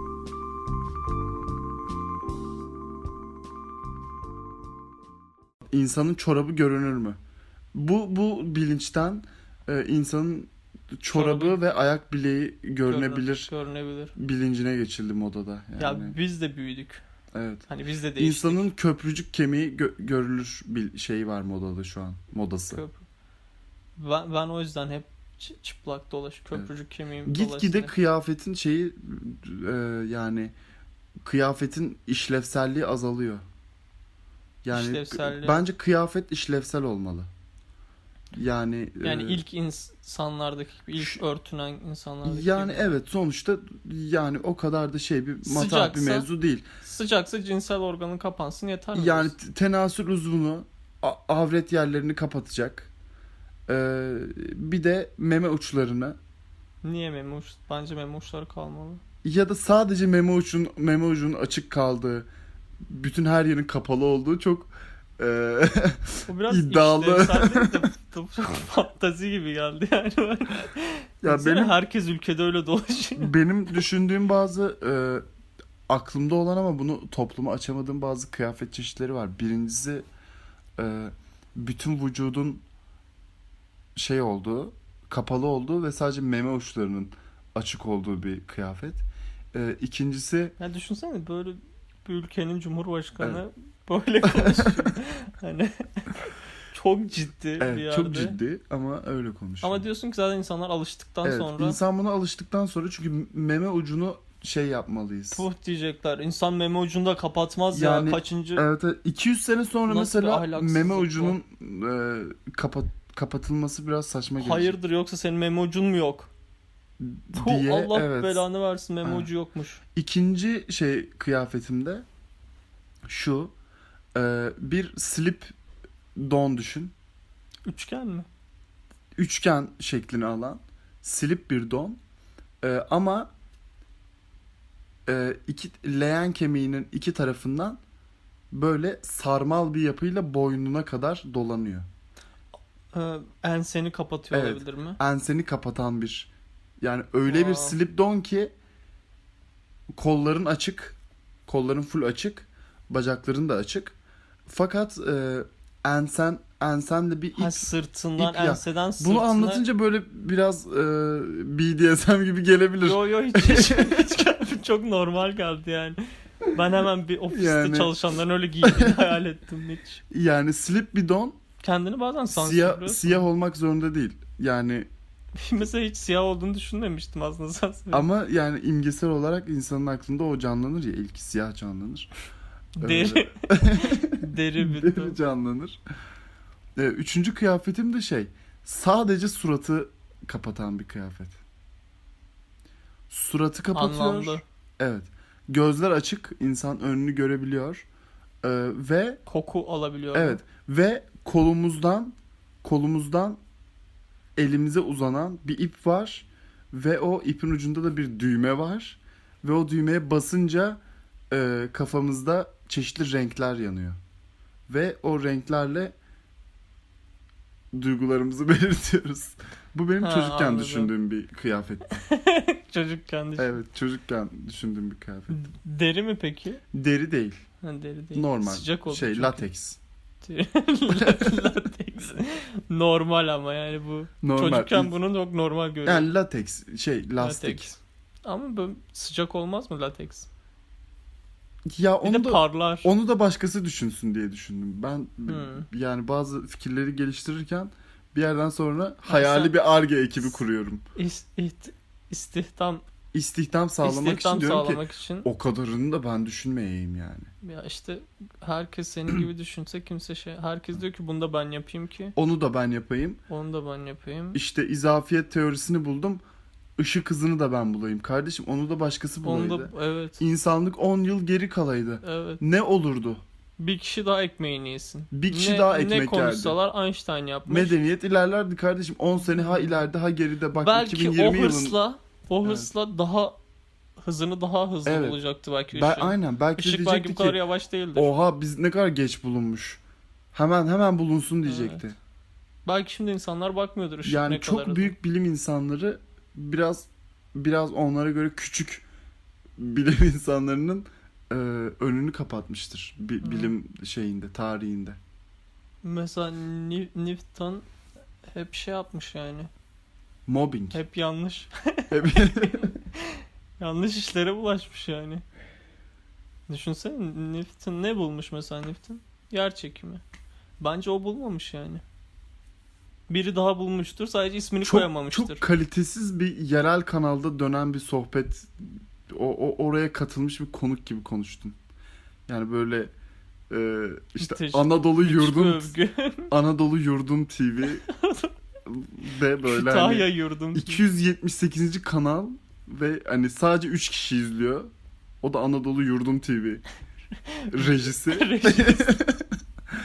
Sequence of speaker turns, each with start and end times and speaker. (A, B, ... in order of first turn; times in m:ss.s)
0:05.7-0:07.2 A
0:07.7-0:13.5 A
0:11.1-0:11.6 B
0:12.8-0:14.1 B
0:14.2-0:16.2 A
0:15.8-0:17.0 B
0:17.3-0:17.7 A
0:17.7-0:18.7 B
0:18.2-0:22.8 A
0:22.7-0:23.0 B
0:24.0-0:27.9 B
0:27.2-0:30.5 A
0:31.2-0:33.4 A
0:34.6-0:37.3 A
0:34.7-0:35.7 B
0:38.3-0:39.4 A
0:39.0-0:43.0 B
0:42.2-0:46.6 A
0:45.4-0:46.3 B
0:46.8-0:49.3 B
0:48.9-0:52.9 A
0:53.7-0:56.2 A
0:56.8-0:59.0 B
0:59.2-1:02.3 A
1:02.8-1:07.8 A
1:06.3-1:13.3 B
1:11.2-1:11.8 A
1:13.2-1:15.2 A
1:15.9-1:20.1 A
1:20.8-1:22.6 A
1:24.0-1:30.6 A
1:30.6-1:38.4 B
1:34.2-1:35.0 A
1:37.6-1:39.8 A
1:39.6-1:41.8 B
1:41.2-1:45.5 A
1:45.3-1:48.6 B
1:47.7-1:54.8 A
1:49.9-1:51.4 B
1:54.4-1:56.3 B
1:57.0-1:58.4 A
1:57.4-1:59.8 B
1:59.0-1:59.3 A
2:00.0-2:02.0 A
2:03.1-2:03.5 A
2:04.2-2:05.5 A
2:06.2-2:06.9 A
2:07.7-2:08.3 B
2:09.2-2:12.0 A
2:12.6-2:13.3 A
2:15.1-2:17.8 A
2:18.5-2:21.9 A
2:22.9-2:25.0 B
2:24.3-2:26.3 A
2:26.8-2:28.5 A
2:27.3-2:27.8 B
2:30.0-2:34.0 A
2:34.5-2:44.1 A
2:37.4-2:39.7 B
2:42.8-2:50.0 B
2:47.3-2:48.0 A
2:48.6-2:49.1 A
2:50.1-2:51.4 A
2:51.6-2:53.3 B
2:52.3-2:54.9 A
2:55.4-2:58.1 B
2:57.9-3:02.1 A
3:02.8-3:05.2 B
3:02.8-3:05.8 A
3:06.8-3:11.4 A
3:13.1-3:17.9 A
3:13.7-3:14.4 B
3:18.4-3:19.2 A
3:19.3-3:20.4 B
3:20.1-3:23.4 A
3:24.4-3:30.8 A
3:31.3-3:34.0 A
3:34.7-3:36.0 A
3:37.7-3:42.0 A
3:40.0-3:40.9 B
3:42.0-3:43.6 B
3:43.4-3:45.4 A
3:45.3-3:46.6 B
3:46.7-3:47.4 A
3:47.6-3:49.4 B
3:48.2-3:49.8 A
3:50.2-3:56.1 B
3:50.9-3:51.4 A
3:54.2-3:54.9 A
3:55.8-3:57.8 A
3:57.2-4:00.3 B
4:01.7-4:10.8 A
4:02.0-4:02.9 B
4:05.3-4:05.7 B
4:09.0-4:09.6 B
4:11.0-4:12.8 B
4:13.1-4:17.3 A
4:13.8-4:15.3 B
4:17.4-4:22.2 B
4:22.2-4:23.2 A
4:23.3-4:24.4 B
4:24.3-4:26.2 A
4:26.8-4:33.2 A
4:29.2-4:30.2 B
4:32.0-4:32.4 B
4:33.6-4:37.8 B
4:35.1-4:36.6 A
4:37.5-4:41.8 A
4:40.5-4:43.4 B
4:42.4-4:42.7 A
4:44.0-4:48.2 B
4:44.8-4:45.2 A
4:45.7-4:47.4 A
4:48.0-4:49.8 A
4:50.3-4:52.0 A
4:51.4-4:51.8 B
4:52.6-4:55.0 B
4:54.0-4:58.9 A
4:59.6-5:05.0 A
5:03.2-5:03.5 B
5:05.8-5:07.6 B
5:08.3-5:09.5 B
5:10.3-5:10.8 A
5:10.7-5:15.2 B
5:11.9-5:12.7 A
5:16.5-5:20.0 B
5:20.6-5:21.8 B
5:23.1-5:25.4 B
5:24.6-5:31.6 A
5:32.3-5:32.9 A
5:33.5-5:35.7 A
5:34.2-5:36.3 B
5:36.3-5:37.8 A
5:37.6-5:38.3 B
5:38.7-5:44.7 A
5:39.4-5:40.9 B
5:45.2-5:46.6 A
5:47.4-5:49.0 B
5:47.5-5:49.3 A